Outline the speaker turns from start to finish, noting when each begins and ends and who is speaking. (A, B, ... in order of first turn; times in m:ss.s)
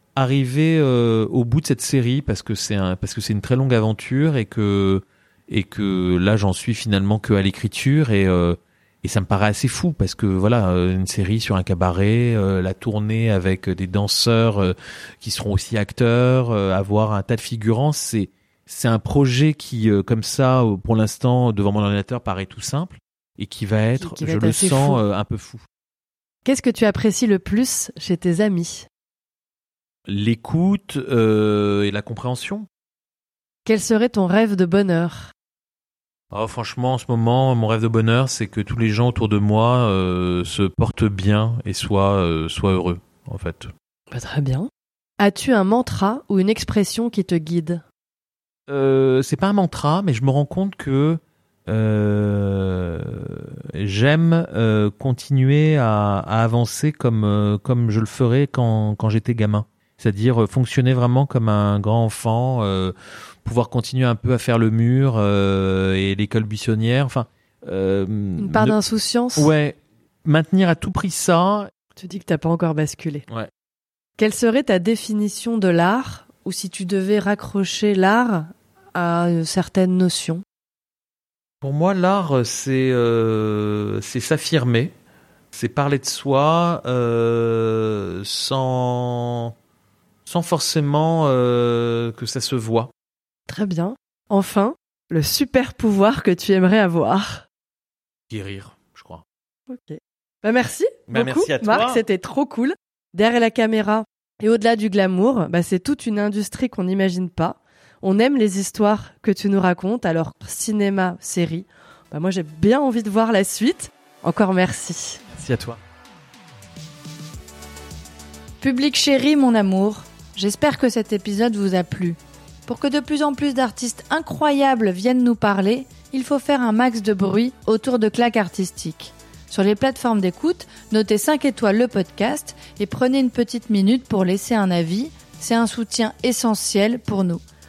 0:00.1-0:25.6 A
0:24.0-0:25.0 B
0:26.4-0:28.9 B
0:30.1-0:32.7 A
0:33.6-0:35.3 B
0:36.3-0:43.7 A
0:44.1-0:47.8 B
0:48.7-1:08.8 A
1:08.4-1:09.5 B
1:09.4-1:11.7 A
1:12.0-1:13.2 B
1:14.2-1:20.4 B
1:21.6-1:24.9 A
1:25.5-1:29.5 A
1:30.2-1:32.9 A
1:33.5-1:37.4 B
1:38.3-1:39.2 A
1:39.7-1:55.2 B
1:41.1-1:42.0 A
1:55.3-1:55.8 A
1:58.6-2:17.4 C